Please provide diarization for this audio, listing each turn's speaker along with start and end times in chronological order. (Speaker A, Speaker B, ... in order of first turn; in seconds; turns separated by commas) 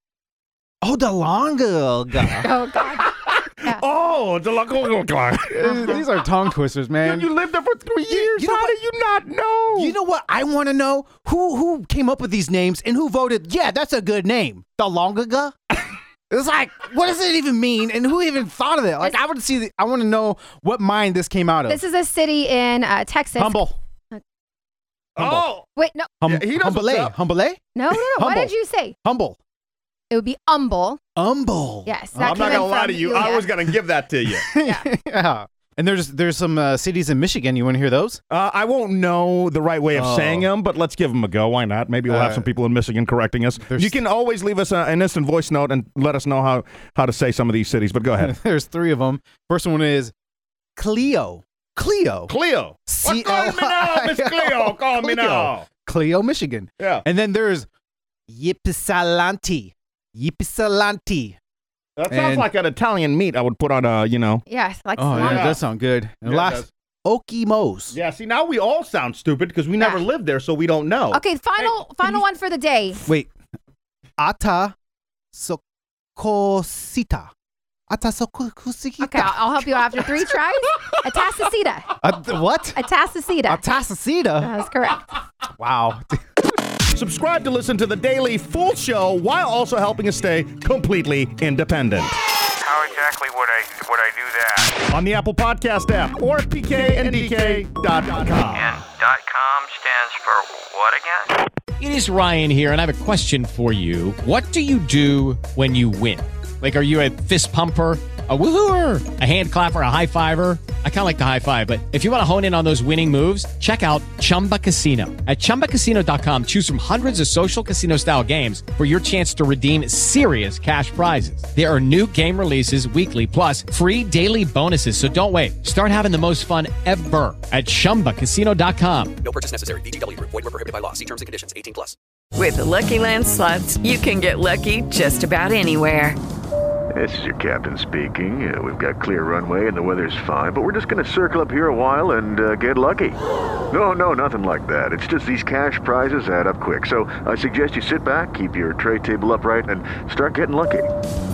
Speaker A: 0.8-2.5, Speaker B: 2.4-3.1, Speaker C: 3.0-6.0, Speaker A: 5.6-7.3, Speaker B: 5.7-6.0, Speaker C: 7.0-9.9, Speaker A: 8.1-8.8, Speaker A: 9.8-15.6, Speaker A: 16.3-21.8, Speaker B: 21.7-23.6, Speaker A: 23.4-23.8, Speaker A: 25.2-25.5, Speaker C: 25.2-25.7, Speaker B: 25.8-26.1, Speaker A: 26.2-29.4, Speaker C: 26.2-27.1, Speaker B: 27.8-28.9, Speaker B: 30.1-31.0, Speaker A: 31.2-33.3, Speaker B: 31.9-33.5, Speaker C: 32.2-34.5, Speaker A: 34.3-38.2, Speaker C: 38.3-48.4, Speaker A: 39.9-40.5, Speaker A: 42.1-42.5, Speaker A: 43.7-44.0, Speaker A: 48.2-50.1, Speaker A: 50.8-52.3, Speaker C: 52.3-55.7, Speaker A: 52.9-57.7, Speaker C: 56.8-57.0, Speaker A: 58.3-61.4, Speaker C: 62.0-64.5, Speaker A: 62.1-62.5, Speaker B: 64.5-65.5, Speaker A: 65.0-68.0, Speaker C: 65.1-65.6, Speaker C: 66.2-66.7, Speaker C: 67.9-71.2, Speaker B: 69.8-70.0, Speaker B: 71.1-73.1, Speaker A: 74.2-74.7, Speaker A: 75.3-75.6, Speaker A: 76.2-77.3, Speaker A: 77.9-79.7, Speaker B: 79.0-82.0, Speaker A: 82.0-82.8, Speaker B: 82.8-83.6, Speaker A: 83.5-84.5, Speaker B: 84.4-85.1, Speaker A: 85.6-86.2, Speaker C: 86.9-92.2, Speaker D: 92.6-94.7, Speaker C: 94.9-98.8, Speaker D: 98.6-101.4, Speaker E: 101.8-129.2, Speaker F: 129.2-132.0, Speaker G: 132.3-136.2, Speaker H: 136.9-143.2, Speaker H: 143.7-150.9